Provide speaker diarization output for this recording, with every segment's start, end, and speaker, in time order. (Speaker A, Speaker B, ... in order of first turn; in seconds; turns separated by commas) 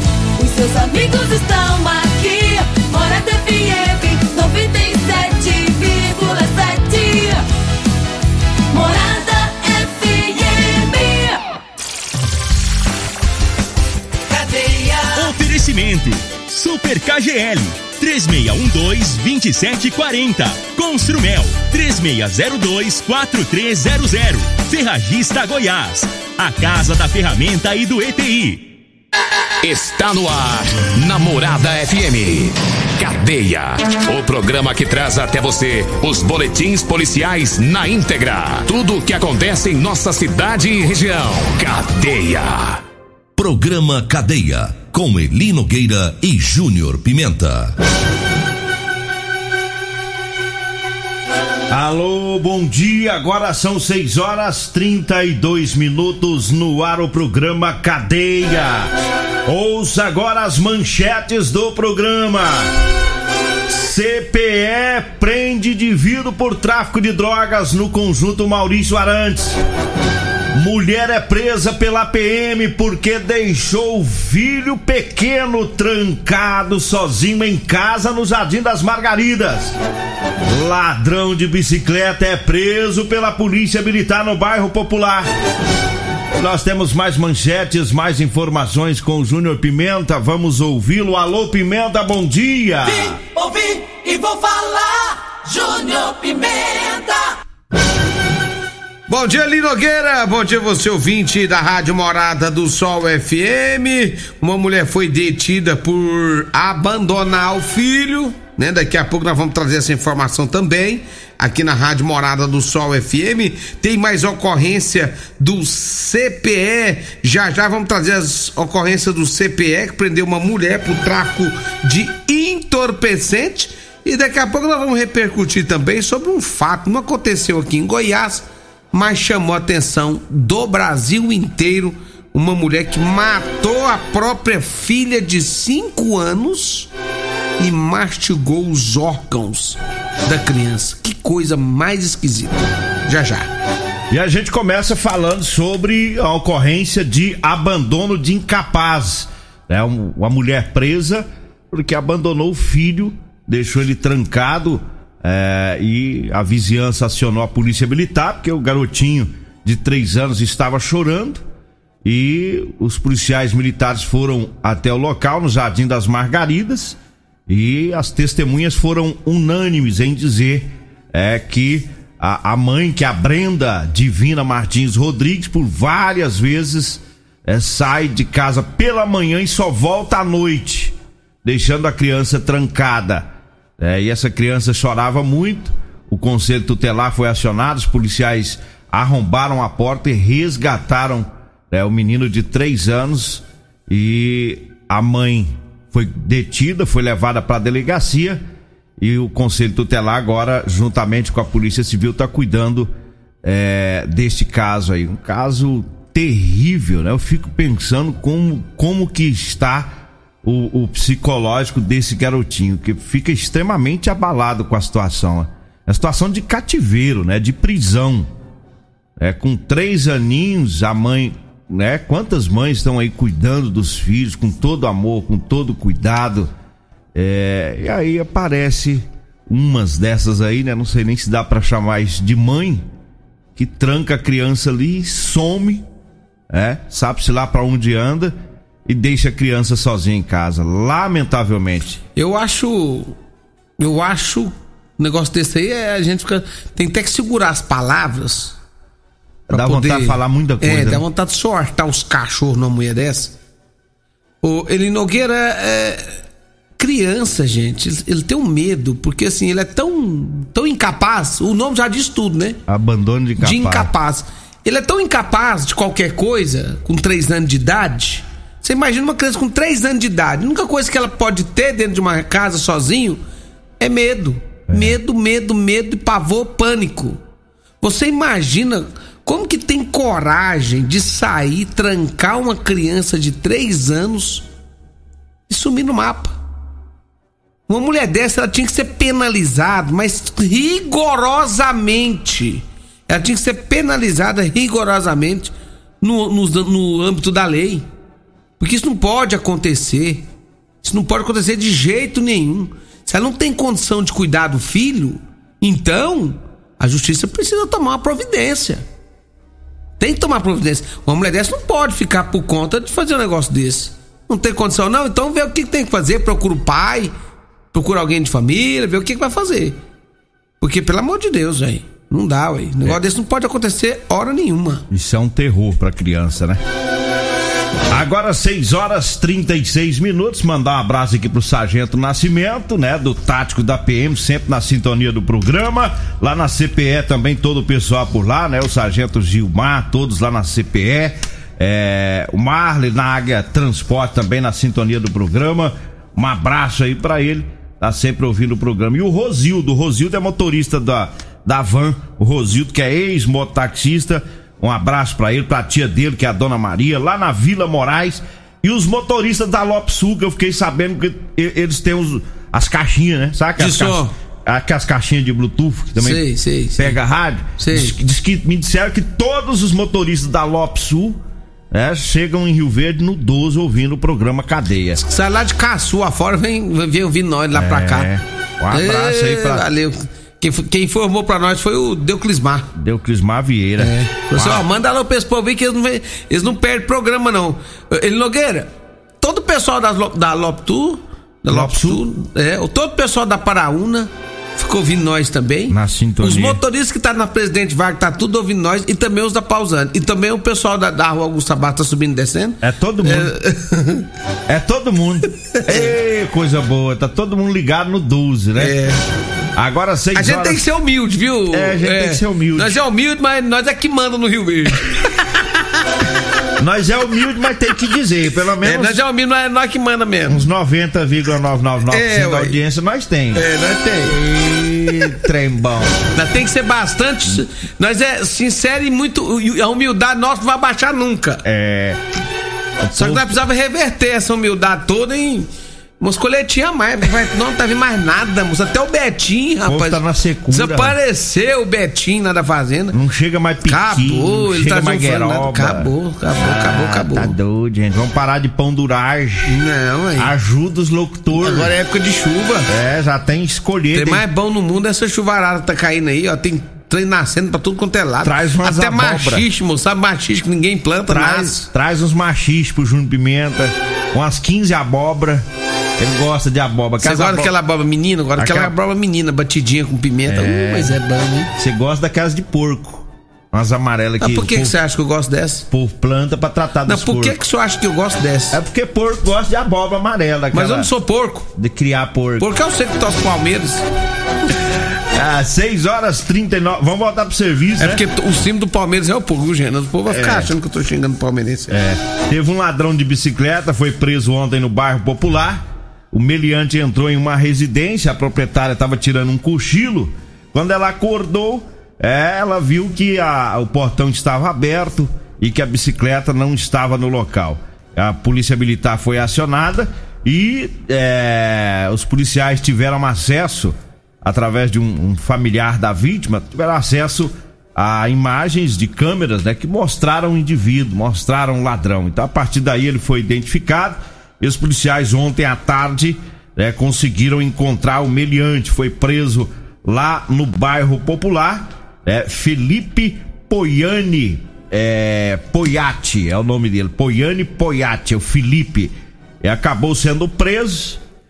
Speaker A: 0.4-7.4, Speaker A: 8.7-11.5, Speaker A: 14.3-15.2, Speaker B: 15.1-28.7, Speaker C: 29.6-42.8, Speaker D: 43.4-47.8, Speaker E: 51.7-58.9, Speaker E: 59.5-62.7, Speaker E: 63.7-69.6, Speaker E: 70.5-79.8, Speaker E: 80.5-85.3, Speaker E: 86.3-93.2, Speaker A: 93.0-97.3, Speaker F: 99.1-136.9, Speaker F: 137.6-143.5, Speaker E: 144.1-161.4, Speaker E: 162.0-198.4, Speaker E: 199.0-202.9, Speaker E: 203.4-218.3, Speaker E: 219.2-226.5, Speaker E: 227.2-232.9, Speaker E: 233.6-235.9, Speaker E: 236.5-238.3, Speaker E: 238.9-242.0, Speaker F: 242.2-243.2, Speaker F: 243.8-248.6, Speaker E: 249.5-251.0, Speaker F: 249.5-253.3, Speaker F: 254.4-256.2, Speaker F: 256.8-262.6, Speaker E: 262.7-263.9, Speaker F: 263.4-273.2, Speaker F: 273.8-277.2, Speaker E: 274.7-275.0, Speaker F: 277.8-284.4, Speaker F: 285.5-286.4, Speaker F: 287.7-297.9, Speaker F: 298.6-300.3, Speaker F: 300.8-308.9, Speaker F: 310.0-317.1, Speaker F: 317.7-319.8, Speaker F: 320.6-324.9, Speaker E: 324.9-326.6, Speaker E: 327.9-366.2, Speaker F: 363.6-364.1, Speaker F: 366.0-367.0, Speaker E: 366.8-371.2, Speaker F: 367.6-367.9, Speaker E: 371.7-375.0, Speaker F: 375.0-378.1, Speaker E: 377.5-379.7, Speaker F: 378.7-382.7, Speaker E: 382.7-384.6, Speaker F: 383.8-404.1, Speaker E: 391.5-392.0, Speaker E: 395.7-396.6, Speaker E: 402.6-403.3, Speaker E: 404.5-408.7, Speaker F: 405.6-405.9, Speaker F: 408.6-409.0, Speaker E: 409.6-410.6, Speaker F: 410.1-415.4, Speaker E: 411.5-412.8, Speaker E: 416.6-419.0, Speaker F: 418.6-420.4, Speaker E: 420.3-423.4, Speaker F: 421.9-422.6, Speaker F: 423.3-424.2, Speaker E: 424.1-426.0, Speaker F: 426.1-431.4, Speaker E: 431.4-432.0, Speaker E: 432.8-433.4, Speaker F: 432.9-435.5, Speaker F: 436.0-443.0, Speaker E: 439.7-441.0, Speaker E: 442.9-449.6, Speaker F: 443.6-447.3, Speaker F: 449.5-450.3, Speaker E: 450.2-451.7, Speaker F: 451.3-452.7, Speaker E: 452.7-454.2, Speaker F: 453.9-461.7, Speaker E: 458.2-459.5, Speaker E: 461.1-465.5, Speaker E: 466.0-467.5, Speaker F: 467.0-471.5, Speaker E: 468.4-468.7, Speaker E: 470.2-471.0, Speaker E: 471.6-474.8, Speaker F: 474.2-475.7, Speaker E: 475.7-477.4, Speaker F: 476.9-478.6, Speaker E: 478.5-480.9, Speaker F: 480.5-481.5, Speaker E: 481.5-482.5, Speaker F: 482.4-483.8, Speaker E: 485.1-488.0, Speaker F: 487.8-491.8, Speaker E: 490.1-490.5, Speaker E: 491.7-541.0